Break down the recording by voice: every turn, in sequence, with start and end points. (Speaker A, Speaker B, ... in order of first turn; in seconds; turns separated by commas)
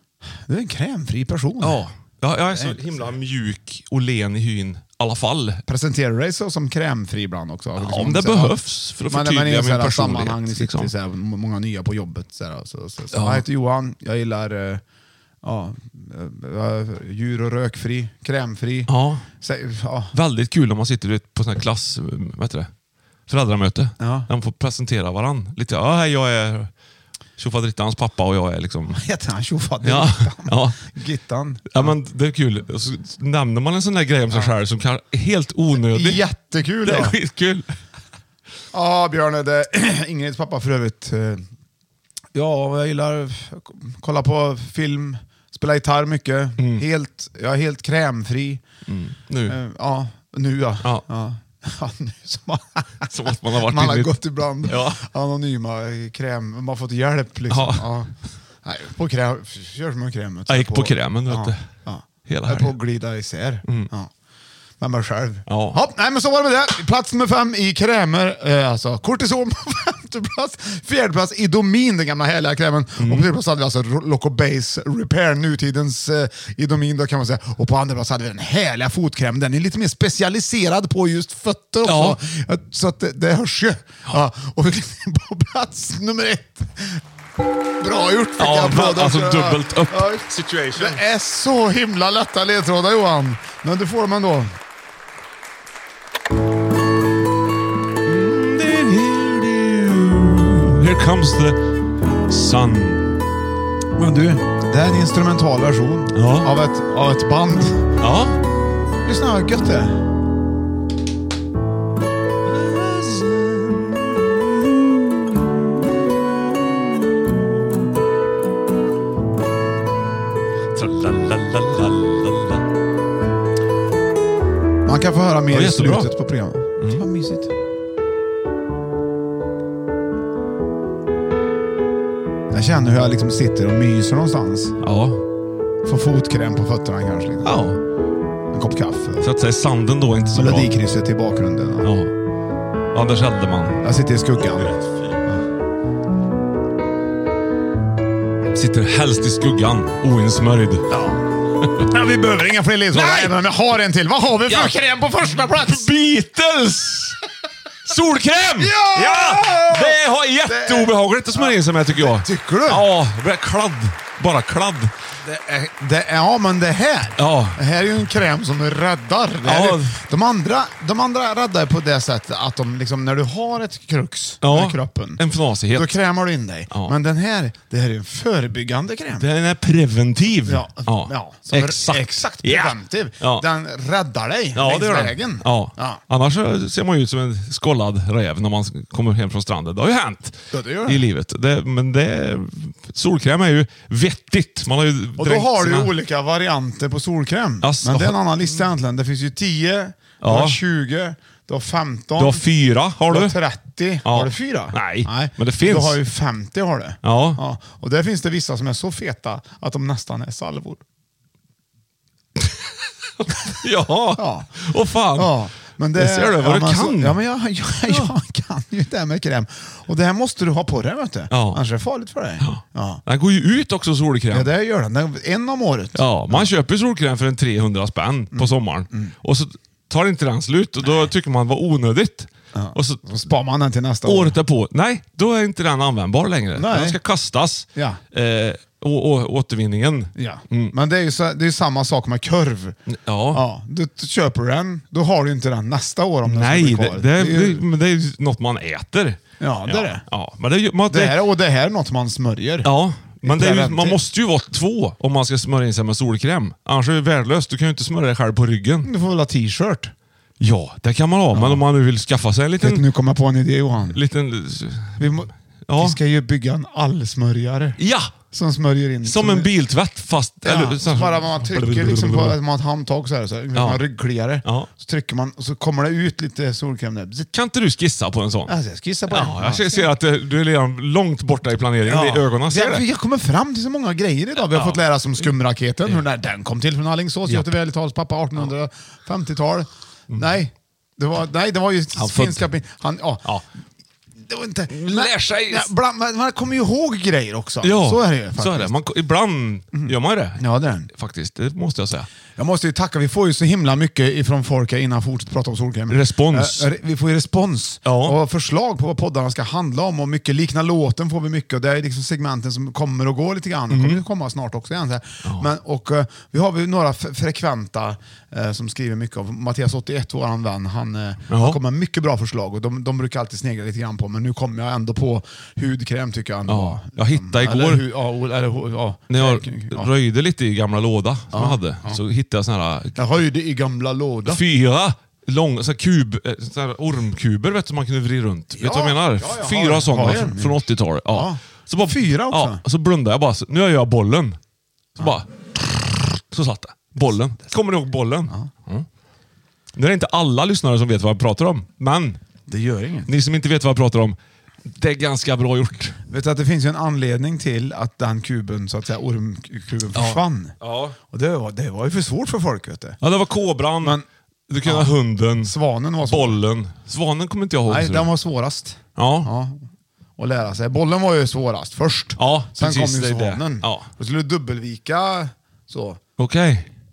Speaker A: 0.5-1.8, Speaker B: 1.6-5.6, Speaker A: 2.5-3.0, Speaker A: 5.7-8.6, Speaker B: 7.8-10.9, Speaker A: 9.1-14.8, Speaker B: 13.1-13.4, Speaker A: 15.4-20.1, Speaker B: 18.9-19.2, Speaker B: 20.1-22.7, Speaker B: 23.3-26.7, Speaker A: 24.0-24.3, Speaker B: 27.4-29.0, Speaker A: 28.9-31.9, Speaker B: 29.8-30.8, Speaker B: 31.7-36.2, Speaker A: 35.8-37.1, Speaker B: 36.8-37.7, Speaker A: 38.7-41.5, Speaker A: 42.3-48.6, Speaker B: 46.6-46.9, Speaker B: 48.9-49.6, Speaker A: 49.5-58.1, Speaker B: 53.1-54.1, Speaker B: 54.6-55.0, Speaker B: 57.5-57.9, Speaker A: 58.6-64.1, Speaker B: 60.5-61.6, Speaker B: 62.3-62.8, Speaker A: 64.8-87.0, Speaker B: 65.5-65.8, Speaker B: 73.0-73.3, Speaker B: 81.8-82.2, Speaker A: 87.8-90.2, Speaker B: 88.4-91.0, Speaker A: 90.8-94.5, Speaker B: 98.1-101.6, Speaker B: 102.3-103.2, Speaker A: 104.0-107.9, Speaker B: 106.2-106.5, Speaker B: 108.0-108.4, Speaker A: 109.0-110.0, Speaker B: 112.5-114.4, Speaker B: 120.8-122.7, Speaker A: 124.8-127.5, Speaker B: 125.5-126.1, Speaker B: 126.8-127.1, Speaker A: 132.5-134.8, Speaker B: 134.8-135.2, Speaker A: 135.8-137.6, Speaker B: 137.4-137.8, Speaker A: 138.5-139.3, Speaker B: 139.2-140.7, Speaker A: 140.3-141.9, Speaker B: 141.8-142.1, Speaker B: 142.9-143.8, Speaker A: 143.8-144.8, Speaker B: 148.5-150.9, Speaker A: 150.9-151.2, Speaker A: 151.8-155.9, Speaker B: 152.9-153.4, Speaker B: 154.5-154.8, Speaker B: 155.4-157.2, Speaker B: 157.9-164.9, Speaker A: 158.6-162.9, Speaker A: 165.2-175.2, Speaker B: 167.2-167.6, Speaker B: 169.4-170.0, Speaker B: 174.4-175.9, Speaker A: 175.7-179.3, Speaker B: 179.2-183.4, Speaker A: 180.5-186.0, Speaker B: 184.6-195.9, Speaker A: 190.5-191.0, Speaker A: 195.2-202.4, Speaker B: 197.6-198.6, Speaker B: 200.2-200.6, Speaker B: 202.2-203.3, Speaker A: 203.1-210.8, Speaker B: 204.1-206.0, Speaker B: 207.0-207.4, Speaker B: 213.2-215.4, Speaker A: 214.2-214.5, Speaker A: 215.2-223.0, Speaker B: 215.9-217.2, Speaker B: 217.9-218.1, Speaker B: 221.3-221.6, Speaker B: 222.4-224.5, Speaker A: 224.3-226.5, Speaker B: 225.9-233.2, Speaker A: 228.3-229.1, Speaker A: 230.8-231.1, Speaker A: 232.6-234.4, Speaker B: 234.1-240.7, Speaker A: 236.6-237.0, Speaker A: 237.8-238.0, Speaker A: 240.2-242.8, Speaker B: 242.9-243.4, Speaker A: 243.3-247.6, Speaker B: 246.2-251.2, Speaker A: 249.4-250.1, Speaker A: 250.9-252.7, Speaker B: 252.6-258.9, Speaker A: 253.2-254.0, Speaker A: 258.8-259.9, Speaker B: 260.4-262.8, Speaker A: 261.3-261.6, Speaker A: 262.6-264.0, Speaker B: 263.9-265.1, Speaker A: 265.0-267.8, Speaker B: 265.7-266.0, Speaker B: 267.8-268.1, Speaker A: 268.3-269.5, Speaker B: 269.0-272.4, Speaker A: 270.4-277.3, Speaker B: 273.6-273.8, Speaker B: 274.4-274.7, Speaker B: 277.3-278.6, Speaker A: 278.5-279.9, Speaker B: 279.1-282.8, Speaker A: 281.9-293.3, Speaker B: 284.5-284.8, Speaker B: 292.0-292.5, Speaker A: 294.2-298.7, Speaker B: 294.7-295.7, Speaker B: 297.6-302.1, Speaker A: 299.7-300.9, Speaker A: 302.4-329.9, Speaker B: 305.9-306.7, Speaker B: 307.9-308.2, Speaker B: 313.7-314.0, Speaker B: 321.3-321.6, Speaker B: 326.5-327.8, Speaker B: 329.1-333.0, Speaker A: 331.3-332.0, Speaker A: 333.0-334.4, Speaker B: 334.3-344.4, Speaker A: 338.6-340.6, Speaker A: 341.1-342.6, Speaker B: 345.0-348.9, Speaker B: 349.8-352.2, Speaker A: 352.5-353.1, Speaker B: 353.1-356.0, Speaker A: 356.1-360.6, Speaker B: 359.9-361.0, Speaker A: 361.1-363.0, Speaker B: 363.0-364.0, Speaker B: 364.5-365.5, Speaker A: 364.6-366.4, Speaker B: 366.1-368.1, Speaker A: 367.7-369.6, Speaker B: 369.0-369.3, Speaker A: 370.2-376.0, Speaker B: 372.2-373.9, Speaker B: 376.2-376.7